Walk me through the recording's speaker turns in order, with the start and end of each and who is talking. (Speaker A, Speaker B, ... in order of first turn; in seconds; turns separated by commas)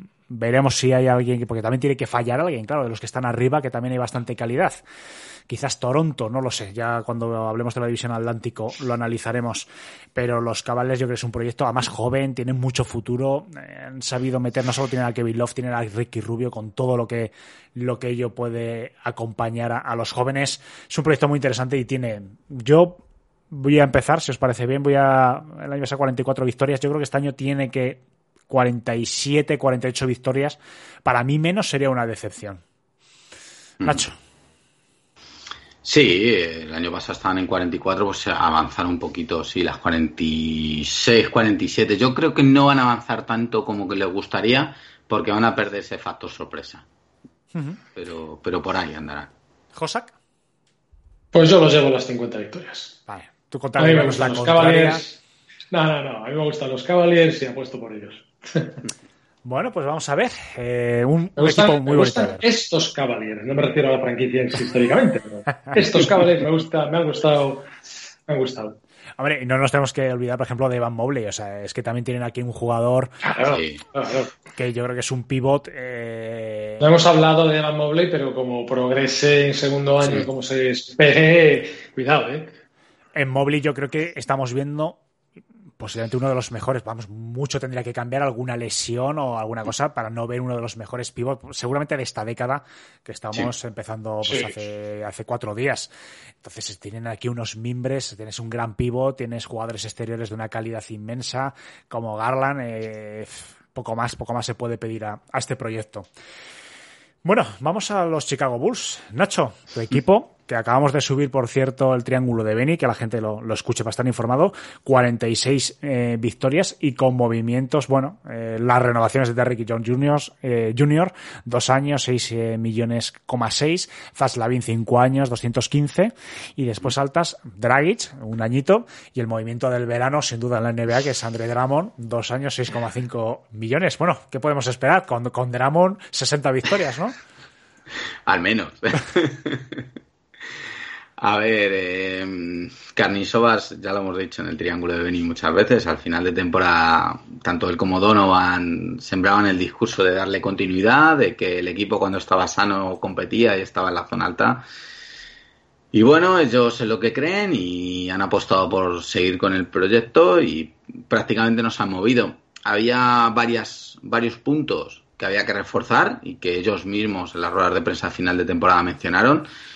Speaker A: 0.3-4.8, Speaker A: 5.5-32.6, Speaker A: 33.8-34.2, Speaker B: 35.8-46.9, Speaker A: 47.5-47.8, Speaker B: 48.0-49.3, Speaker A: 49.7-50.1, Speaker C: 51.3-53.0, Speaker A: 53.1-55.0, Speaker C: 53.8-55.2, Speaker C: 55.7-58.8, Speaker A: 59.4-62.5, Speaker C: 61.4-67.7, Speaker C: 68.3-68.8, Speaker A: 69.2-73.1, Speaker C: 73.2-74.3, Speaker B: 73.5-73.8, Speaker A: 74.5-76.9, Speaker C: 76.8-82.5, Speaker A: 83.1-85.0, Speaker A: 85.8-95.9, Speaker C: 94.2-94.5, Speaker A: 96.4-106.1, Speaker A: 107.2-137.2, Speaker B: 138.3-139.9, Speaker B: 141.2-154.6, Speaker B: 155.9-169.5